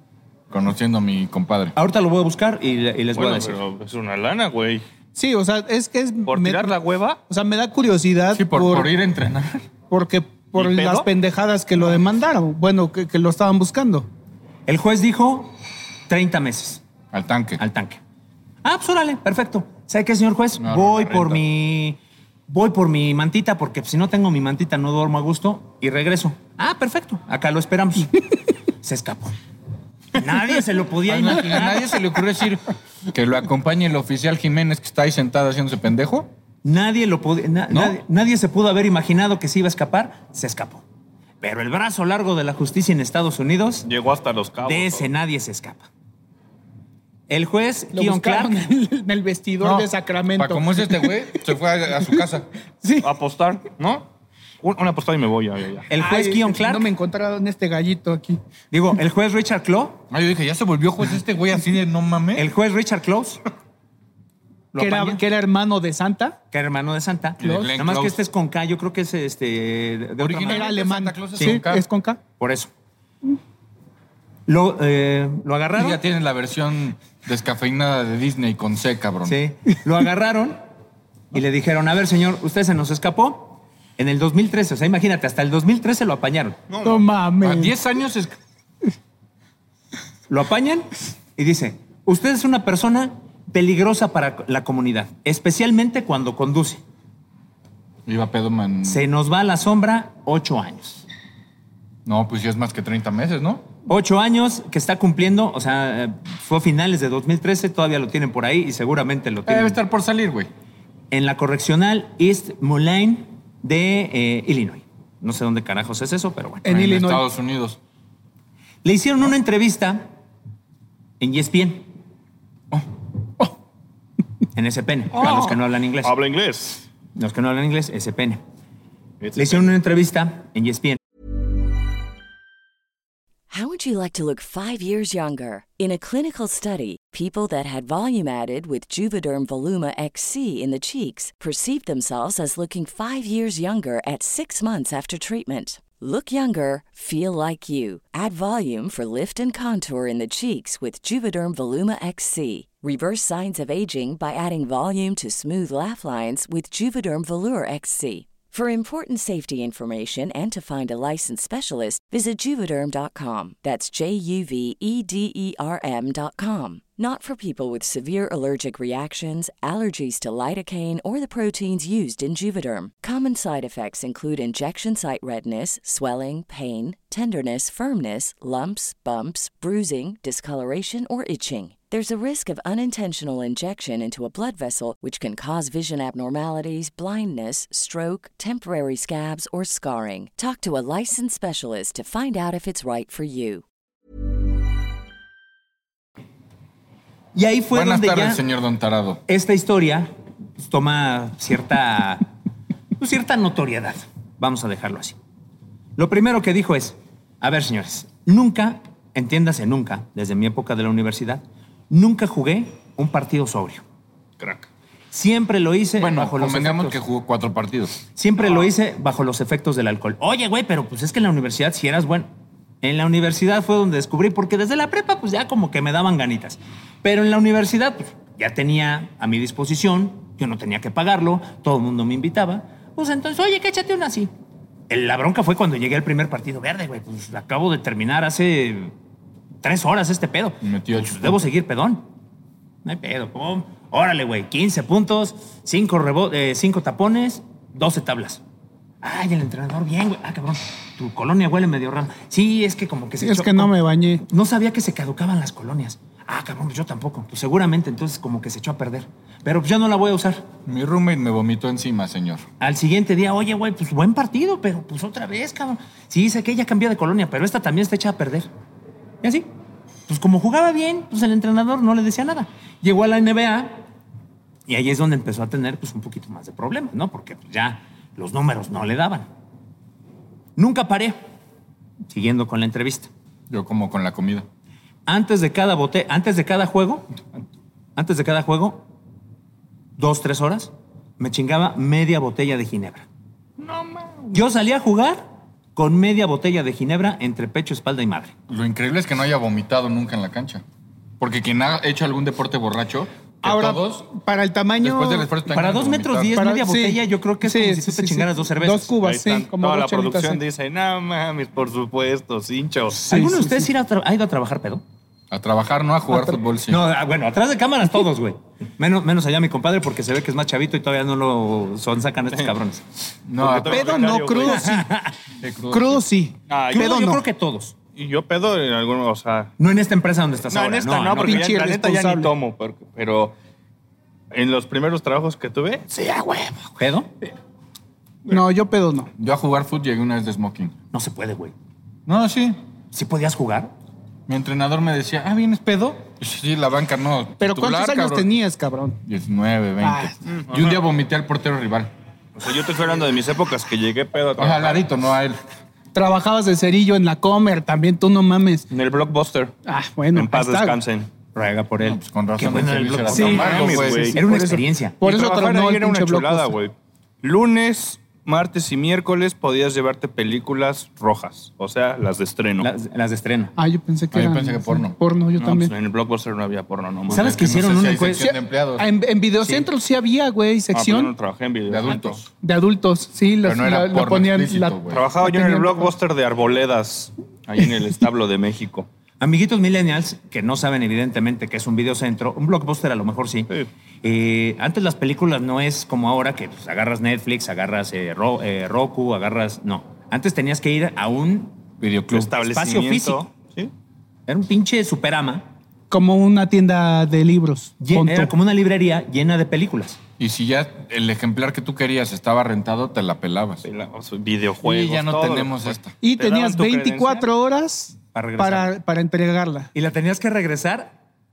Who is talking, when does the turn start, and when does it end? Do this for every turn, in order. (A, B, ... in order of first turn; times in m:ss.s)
0:00.5-0:01.7 A
0:01.8-0:03.6 B
0:03.1-0:04.8 C
0:05.1-0:06.8 D
0:06.2-0:07.2 C
0:07.3-0:08.9 D
0:08.3-0:09.7 A
0:09.9-0:14.1 D
0:10.6-0:11.1 C
0:14.7-0:15.5 B
0:16.1-0:16.8 B
0:17.1-0:17.6 A
0:17.6-0:18.0 B
0:18.6-0:28.2 B
0:20.6-0:21.4 A
0:28.8-0:29.4 B
0:30.1-0:32.0 B
0:31.0-0:36.3 A
0:36.6-0:40.8 B
0:37.7-0:38.0 A
0:41.4-0:43.9 B
0:43.8-0:45.1 C
0:44.6-0:45.9 B
0:47.3-0:48.6 B
0:47.9-0:51.4 D
0:49.6-0:52.5 A
0:52.8-0:53.1 D
0:53.0-0:54.0 C
0:54.6-0:55.9 C
0:55.9-0:56.9 B
0:56.0-0:58.4 D
0:58.7-1:00.0 B
1:00.1-1:02.5 A
1:02.3-1:03.4 B
1:04.7-1:05.2 B
1:04.8-1:06.4 D
1:06.5-1:10.7 B
1:07.4-1:08.2 A
1:07.4-1:07.7 D
1:10.2-1:11.8 A
1:10.4-1:12.2 D
1:11.3-1:11.6 B
1:12.4-1:12.7 B
1:14.5-1:16.0 B
1:15.8-1:19.4 A
1:19.2-1:20.6 B
1:21.3-1:26.6 B
1:26.7-1:27.0 C
1:26.8-1:27.7 D
1:27.4-1:28.4 A
1:30.3-1:36.8 B
1:38.0-1:39.0 A
1:38.8-1:41.0 B
1:42.0-1:43.7 A
1:43.9-1:49.8 B
1:49.4-1:50.5 A
1:51.1-1:56.6 B
1:56.6-1:57.2 D
1:56.6-1:57.8 A
1:58.8-2:00.1 B
2:01.2-2:01.9 B
2:04.5-2:06.2 B
2:05.2-2:06.8 C
2:07.2-2:08.4 B
2:09.2-2:09.7 C
2:09.4-2:11.0 B
2:13.5-3:13.6 E
3:17.3-3:18.4 B
3:17.7-3:19.2 A
3:19.3-3:22.3 B
3:23.0-3:25.2 B
3:26.0-3:33.8 B
3:34.4-3:34.7 C
3:35.1-3:37.0 B
3:36.0-3:38.0 A
3:38.2-3:42.3 B
3:42.8-3:54.3 B
3:54.9-3:58.9 B
3:59.6-4:02.1 B
4:00.6-4:01.4 A
4:02.8-4:08.4 B
4:09.0-4:13.7 B
4:13.2-4:14.2 D
4:14.2-4:20.4 B
4:20.6-4:22.4 A
4:22.6-4:28.5 B
4:29.2-4:29.5 B
4:30.1-4:33.8 B
4:34.7-4:39.3 B
4:40.6-4:41.2 B
4:42.1-4:43.1 B
4:43.5-4:44.4 A
4:45.0-4:47.1 B
4:48.0-4:48.8 B
4:50.0-4:53.0 B
4:53.6-4:54.4 C
4:54.3-4:55.2 B
4:55.8-4:58.3 B
4:58.5-5:00.6 A
5:01.2-5:04.1 A
5:03.4-5:05.3 D
5:04.8-5:06.4 A
5:05.5-5:08.9 B
5:06.3-5:10.4 D
5:09.0-5:13.0 C
5:13.0-5:13.7 D
5:13.0-5:14.8 B
5:15.3-5:16.8 A
5:16.7-5:22.9 B
5:23.3-5:24.1 A
5:23.3-5:24.9 C
5:23.7-5:24.9 D
5:24.4-5:25.2 B
5:25.4-5:26.0 A
5:25.7-5:27.2 D
5:26.5-5:27.0 C
5:26.7-5:27.8 B
5:27.9-5:29.5 C
5:29.6-5:31.5 B
5:30.5-5:33.3 C
5:31.2-5:32.3 D
5:34.3-5:36.7 C
5:36.8-5:37.1 B
5:38.3-5:39.1 D
5:39.2-5:40.7 A
5:40.9-5:41.5 B
5:42.0-5:42.6 A
5:42.9-5:43.7 B
5:44.3-5:48.3 A
5:47.4-5:49.0 D
5:49.0-5:51.9 A
5:49.8-5:50.2 D
5:50.3-5:50.8 C
5:52.4-5:54.8 C
5:54.4-5:55.4 A
5:55.9-5:58.6 D
5:58.7-5:59.5 C
5:59.6-6:00.8 D
6:00.1-6:01.1 C
6:01.3-6:05.0 B
6:01.8-6:04.2 A
6:03.1-6:12.7 C
6:03.1-6:03.5 D
6:05.0-6:06.6 D
6:12.6-6:13.5 B
6:13.6-6:15.7 D
6:14.1-6:15.0 A
6:15.4-6:17.7 C
6:17.1-6:18.3 B
6:17.1-6:18.9 A
6:18.0-6:21.1 D
6:19.4-6:19.7 B
6:20.7-6:22.2 C
6:21.7-6:22.2 A
6:22.3-6:25.9 D
6:23.4-6:25.0 A
6:24.9-6:28.9 C
6:29.2-6:33.5 B
6:34.0-6:41.6 B
6:41.8-6:42.3 A
6:42.1-6:43.7 C
6:42.4-6:43.2 B
6:44.3-6:45.4 B
6:45.9-6:48.3 D
6:47.8-6:50.0 B
6:50.2-6:53.6 A
6:53.6-6:57.3 C
6:54.6-6:55.9 A
6:56.0-6:59.7 D
6:58.1-6:58.7 B
6:59.7-7:00.9 B